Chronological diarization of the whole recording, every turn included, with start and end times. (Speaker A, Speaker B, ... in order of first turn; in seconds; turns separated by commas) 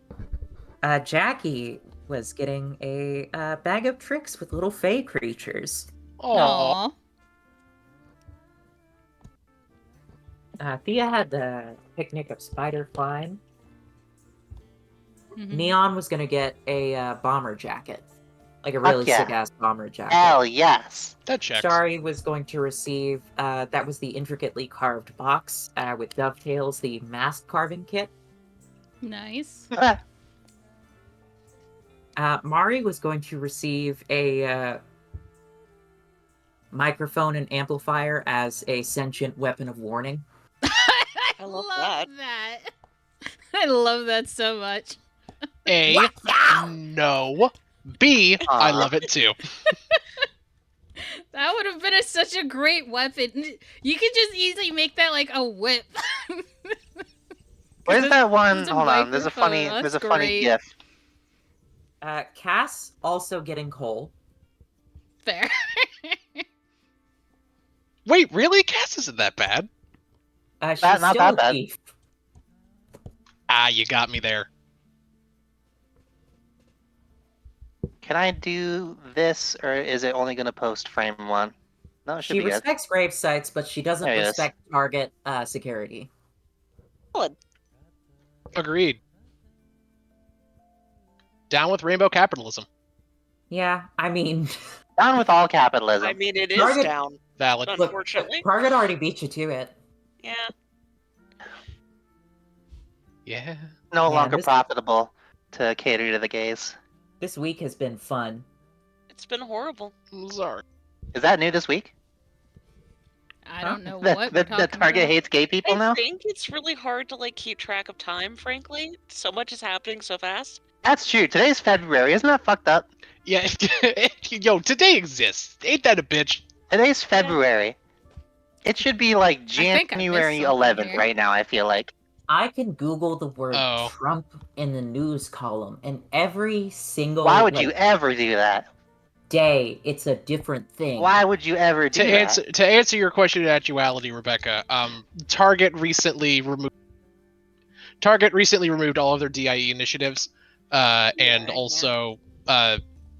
Speaker A: 0.8-5.9, Speaker B: 6.2-6.8, Speaker C: 6.3-6.9, Speaker A: 10.6-13.4, Speaker C: 15.3-15.7, Speaker A: 15.5-18.1, Speaker A: 18.6-20.4, Speaker D: 18.8-19.3, Speaker D: 20.1-21.1, Speaker B: 21.2-21.8, Speaker A: 21.5-28.1, Speaker C: 29.0-29.7, Speaker D: 29.7-30.0, Speaker A: 32.2-34.8, Speaker A: 36.7-40.2, Speaker C: 40.7-42.7, Speaker E: 41.4-42.1, Speaker C: 43.5-45.0, Speaker B: 45.7-49.4, Speaker C: 45.8-46.7, Speaker D: 48.5-48.9, Speaker C: 51.0-56.8, Speaker C: 57.9-60.5, Speaker D: 57.9-60.6, Speaker A: 62.0-64.1, Speaker C: 65.2-66.4, Speaker B: 68.0-69.7, Speaker A: 70.6-71.8, Speaker D: 70.8-71.6, Speaker B: 73.5-74.5, Speaker D: 78.0-81.5, Speaker D: 82.0-82.6, Speaker A: 82.2-86.1, Speaker D: 84.0-84.5, Speaker B: 88.5-89.0, Speaker B: 91.5-92.7, Speaker A: 93.5-94.5, Speaker D: 95.0-96.2, Speaker E: 96.0-98.5, Speaker A: 96.5-96.9, Speaker B: 97.4-97.8, Speaker A: 97.8-99.7, Speaker E: 100.2-100.5, Speaker B: 103.2-103.7, Speaker D: 103.9-106.8, Speaker A: 104.1-104.6, Speaker A: 107.2-108.5, Speaker E: 109.1-109.9, Speaker B: 110.1-110.6, Speaker D: 111.1-111.9, Speaker C: 113.4-115.2, Speaker D: 113.9-116.0, Speaker E: 115.6-120.6, Speaker D: 120.8-122.8, Speaker B: 123.2-126.5, Speaker D: 126.7-127.8, Speaker E: 127.1-127.4, Speaker D: 128.6-131.9, Speaker C: 129.6-131.1, Speaker A: 132.3-137.7, Speaker B: 133.5-133.9, Speaker D: 137.2-138.7, Speaker A: 139.3-141.2, Speaker D: 141.0-142.4, Speaker B: 141.9-146.7, Speaker B: 148.0-152.8, Speaker E: 151.2-151.9